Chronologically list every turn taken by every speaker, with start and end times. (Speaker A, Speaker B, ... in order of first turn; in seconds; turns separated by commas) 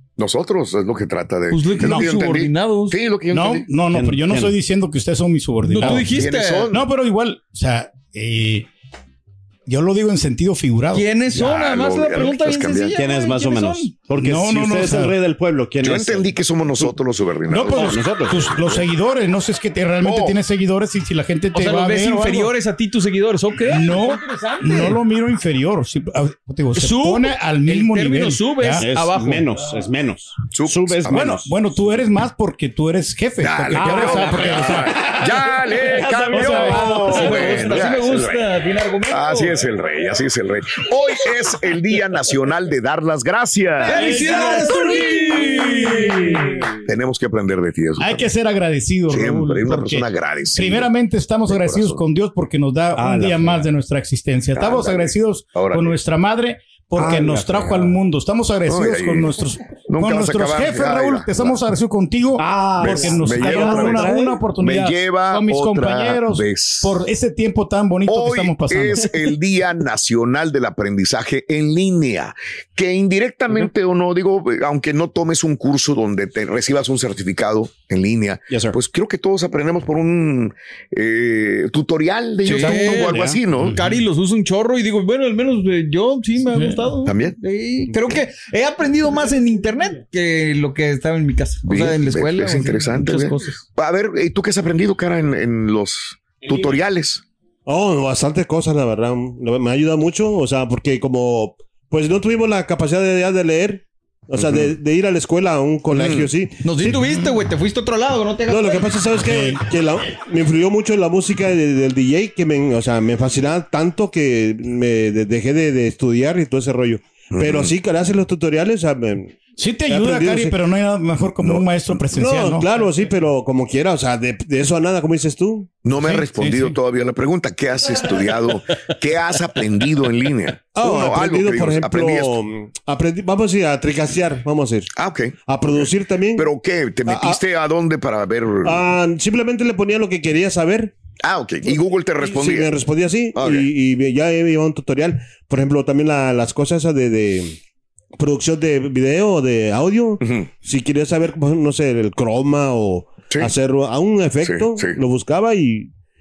Speaker A: 0.2-3.7, Speaker B: 1.5-3.0, Speaker C: 1.8-2.1, Speaker C: 3.3-8.7, Speaker D: 3.9-4.6, Speaker B: 5.7-6.7, Speaker A: 5.9-6.9, Speaker C: 9.7-11.0, Speaker B: 10.9-13.9, Speaker A: 11.3-13.0, Speaker D: 12.9-16.9, Speaker C: 14.2-15.2, Speaker A: 15.8-18.9, Speaker C: 17.5-22.5, Speaker D: 17.6-18.5, Speaker A: 20.0-20.4, Speaker B: 21.5-25.0, Speaker C: 23.7-28.9, Speaker B: 26.8-29.5, Speaker D: 28.8-31.5, Speaker A: 30.5-31.4, Speaker C: 31.1-37.6, Speaker A: 33.4-38.5, Speaker D: 33.8-34.9, Speaker B: 36.2-39.7, Speaker A: 39.1-44.2, Speaker B: 43.8-46.5, Speaker C: 43.9-46.5, Speaker A: 46.9-48.3, Speaker C: 48.0-50.0, Speaker A: 49.1-50.9, Speaker C: 50.6-69.1, Speaker A: 51.5-52.0, Speaker D: 53.0-53.7, Speaker A: 54.5-56.0, Speaker D: 57.0-58.0, Speaker A: 58.7-59.4, Speaker A: 59.9-61.6, Speaker D: 62.4-64.4, Speaker A: 62.8-67.0, Speaker A: 68.1-83.8, Speaker D: 78.5-78.8, Speaker D: 82.5-83.4, Speaker B: 82.5-93.6, Speaker C: 83.6-83.9, Speaker A: 87.0-87.4, Speaker A: 91.7-97.2, Speaker E: 97.7-107.2, Speaker A: 104.4-104.7, Speaker A: 105.9-106.3, Speaker B: 106.6-109.2, Speaker E: 108.5-120.6, Speaker C: 109.2-109.6, Speaker A: 117.3-117.7, Speaker C: 119.6-122.7, Speaker A: 121.4-122.0, Speaker E: 122.1-125.7, Speaker A: 125.8-132.3, Speaker C: 126.0-126.8, Speaker E: 130.7-134.9, Speaker A: 135.0-138.9, Speaker E: 135.5-136.5, Speaker E: 137.1-137.4, Speaker E: 138.7-140.9, Speaker A: 141.2-142.7, Speaker E: 141.7-147.6, Speaker A: 143.3-143.7, Speaker E: 148.2-155.9, Speaker A: 150.2-150.5, Speaker A: 154.4-155.0